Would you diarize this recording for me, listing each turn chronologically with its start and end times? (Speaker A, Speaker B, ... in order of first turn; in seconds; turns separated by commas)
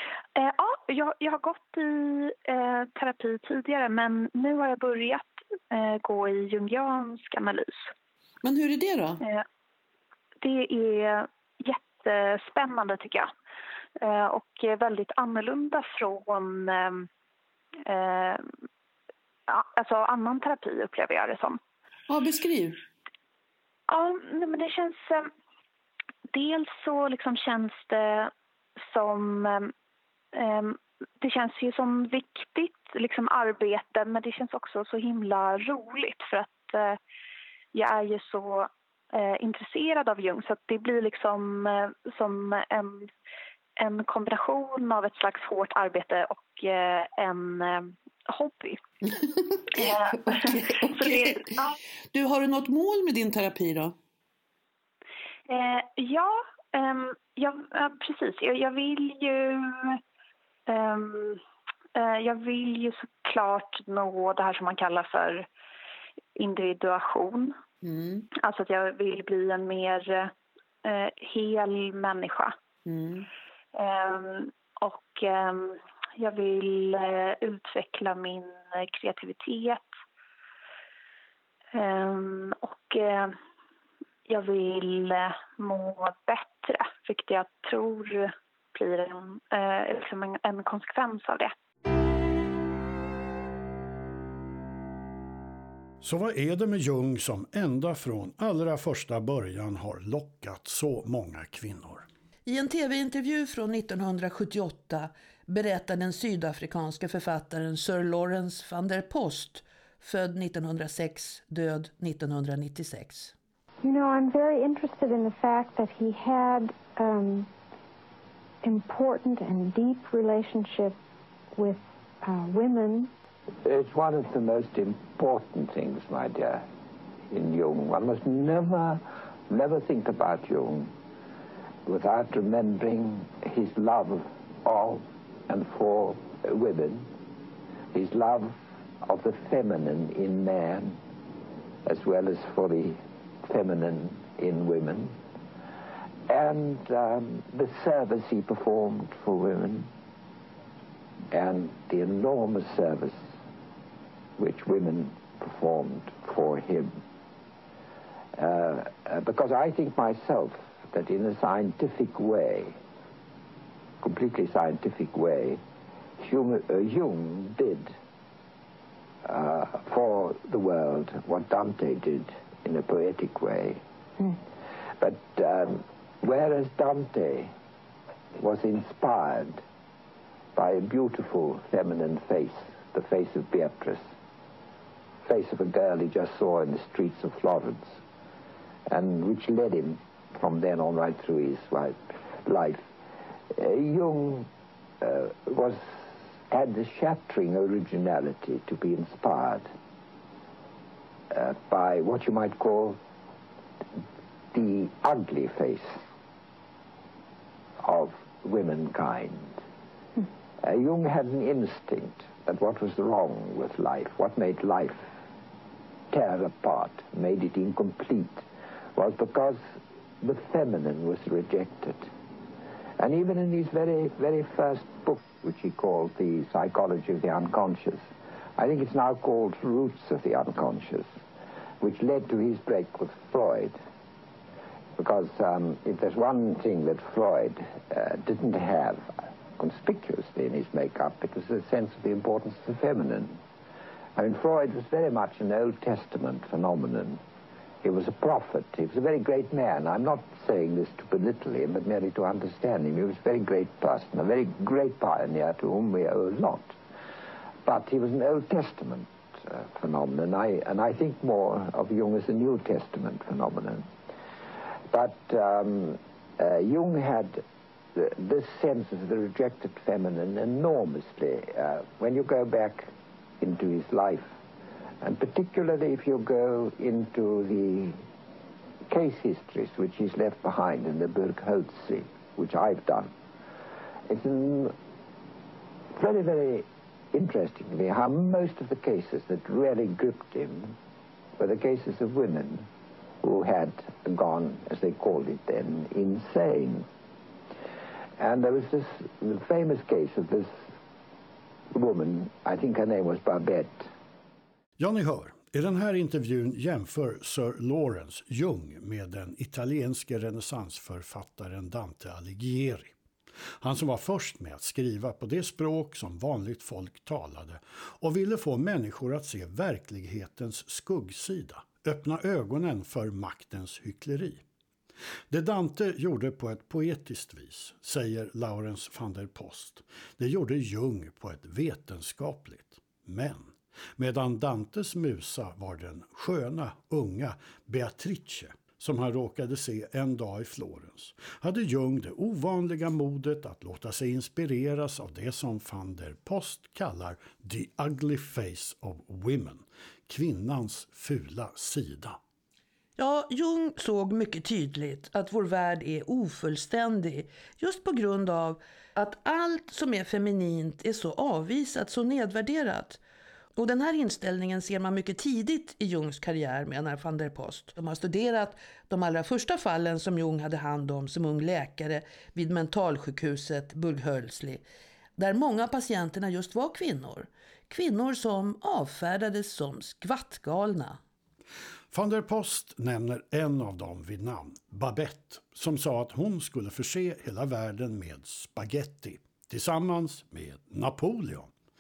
Speaker A: 0.4-7.9, Speaker B: 8.4-9.2, Speaker A: 10.4-13.3, Speaker A: 14.0-17.1, Speaker A: 17.9-18.5, Speaker A: 19.5-21.6, Speaker B: 22.1-22.8, Speaker A: 23.9-25.3, Speaker A: 26.3-28.3, Speaker A: 28.9-29.7, Speaker A: 30.3-37.0, Speaker A: 37.7-43.1, Speaker A: 43.8-48.8, Speaker B: 49.0-51.6, Speaker A: 49.8-51.7, Speaker B: 52.1-54.0, Speaker A: 55.5-60.0, Speaker A: 60.7-61.4, Speaker A: 62.0-65.5, Speaker A: 66.4-67.6, Speaker B: 67.8-68.3, Speaker A: 68.4-70.3, Speaker A: 70.8-72.5, Speaker B: 72.9-73.3, Speaker A: 73.8-79.8, Speaker A: 81.7-83.4, Speaker A: 84.3-91.5, Speaker C: 96.0-102.1, Speaker D: 102.5-113.3, Speaker E: 113.8-117.5, Speaker E: 118.6-121.0, Speaker E: 121.6-123.1, Speaker F: 123.6-126.7, Speaker F: 127.3-130.9, Speaker F: 131.9-137.1, Speaker F: 137.9-141.0, Speaker F: 141.9-145.2, Speaker F: 146.3-149.9, Speaker F: 151.3-153.3, Speaker F: 154.4-157.0, Speaker F: 158.3-162.8, Speaker F: 164.0-165.6, Speaker F: 166.2-167.9, Speaker F: 169.2-173.8, Speaker F: 175.0-177.5, Speaker F: 178.4-179.6, Speaker F: 180.6-184.1, Speaker F: 185.2-188.0, Speaker F: 188.9-192.9, Speaker F: 193.5-194.5, Speaker F: 195.0-199.7, Speaker F: 201.3-203.0, Speaker F: 204.5-206.0, Speaker F: 207.8-209.6, Speaker F: 210.6-215.1, Speaker F: 216.1-219.6, Speaker F: 220.2-222.1, Speaker F: 223.0-228.1, Speaker F: 228.6-231.1, Speaker F: 231.8-233.8, Speaker F: 235.0-243.4, Speaker F: 244.2-247.2, Speaker F: 247.8-256.8, Speaker F: 257.6-263.9, Speaker F: 264.9-267.4, Speaker F: 267.9-274.4, Speaker F: 275.0-278.0, Speaker F: 278.9-283.1, Speaker F: 284.1-284.8, Speaker F: 285.9-290.8, Speaker F: 291.4-292.7, Speaker F: 293.2-296.9, Speaker F: 298.2-300.7, Speaker F: 301.7-303.9, Speaker C: 304.8-312.9, Speaker C: 313.6-324.4, Speaker C: 325.3-352.2, Speaker D: 353.0-363.0, Speaker D: 363.6-374.6, Speaker D: 375.2-381.0, Speaker C: 381.9-391.5